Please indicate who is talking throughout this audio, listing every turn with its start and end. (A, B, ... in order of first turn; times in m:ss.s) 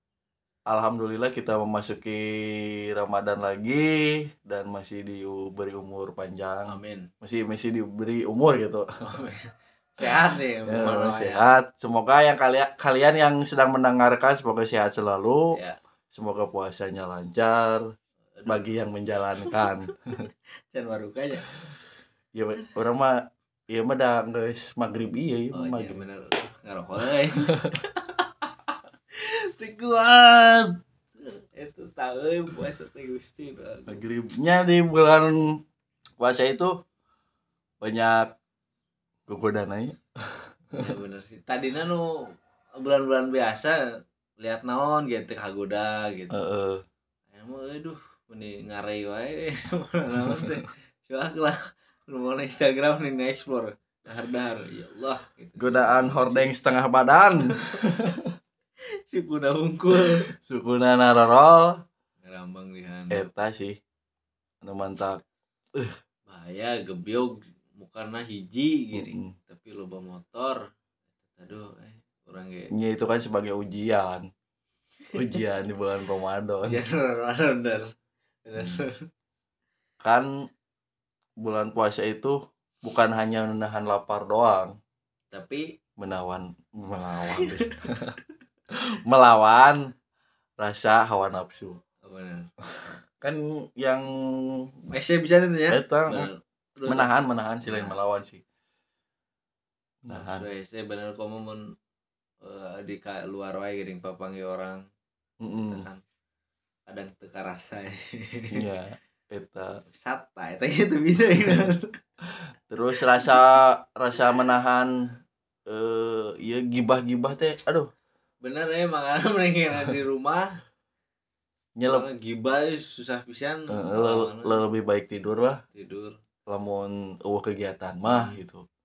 0:00.7-0:08.9 A
0:06.7-0:07.1 B
0:09.0-0:11.5 B
0:10.7-0:15.6 A
0:15.5-0:15.8 B
0:16.1-0:17.9 A
0:18.4-0:18.7 B
0:18.5-0:20.1 A
0:19.4-0:19.7 B
0:20.7-0:21.5 B
0:22.3-0:26.0 A
0:25.5-0:34.0 B
0:33.9-0:35.6 A
0:36.2-0:36.7 A
0:37.8-0:38.3 A
0:39.3-0:40.9 A
0:40.7-0:42.1 B
0:42.8-0:43.8 B
0:44.4-0:46.4 B
0:46.3-0:46.8 A
0:47.3-0:56.5 B
0:55.6-0:58.3 A
0:59.1-1:00.3 B
0:59.9-1:01.8 A
1:02.2-1:03.2 B
1:03.1-1:03.8 A
1:04.6-1:05.2 A
1:06.3-1:10.6 B
1:08.9-1:09.4 A
1:11.4-1:12.7 B
1:12.7-1:14.3 A
1:15.1-1:16.8 A
1:16.6-1:17.9 B
1:18.5-1:19.1 B
1:18.6-1:18.8 A
1:20.0-1:20.3 A
1:21.4-1:24.7 A
1:25.3-1:25.6 B
1:26.0-1:28.2 A
1:27.3-1:27.7 B
1:28.7-1:29.8 A
1:30.6-1:31.8 A
1:32.0-1:32.5 B
1:33.2-1:34.7 A
1:34.9-1:37.1 B
1:35.7-1:36.3 A
1:36.9-1:38.4 A
1:37.6-1:38.0 B
1:40.0-1:40.4 A
1:40.1-1:41.6 B
1:42.4-1:44.8 B
1:45.4-1:45.9 A
1:45.7-1:46.0 B
1:46.9-1:48.6 B
1:48.5-1:49.8 A
1:50.0-1:52.0 B
1:52.7-1:54.9 A
1:55.7-1:57.9 A
1:58.4-2:00.5 B
2:01.8-2:02.1 A
2:01.9-2:04.6 B
2:03.7-2:05.6 A
2:05.7-2:06.2 B
2:06.5-2:08.6 A
2:08.1-2:08.4 B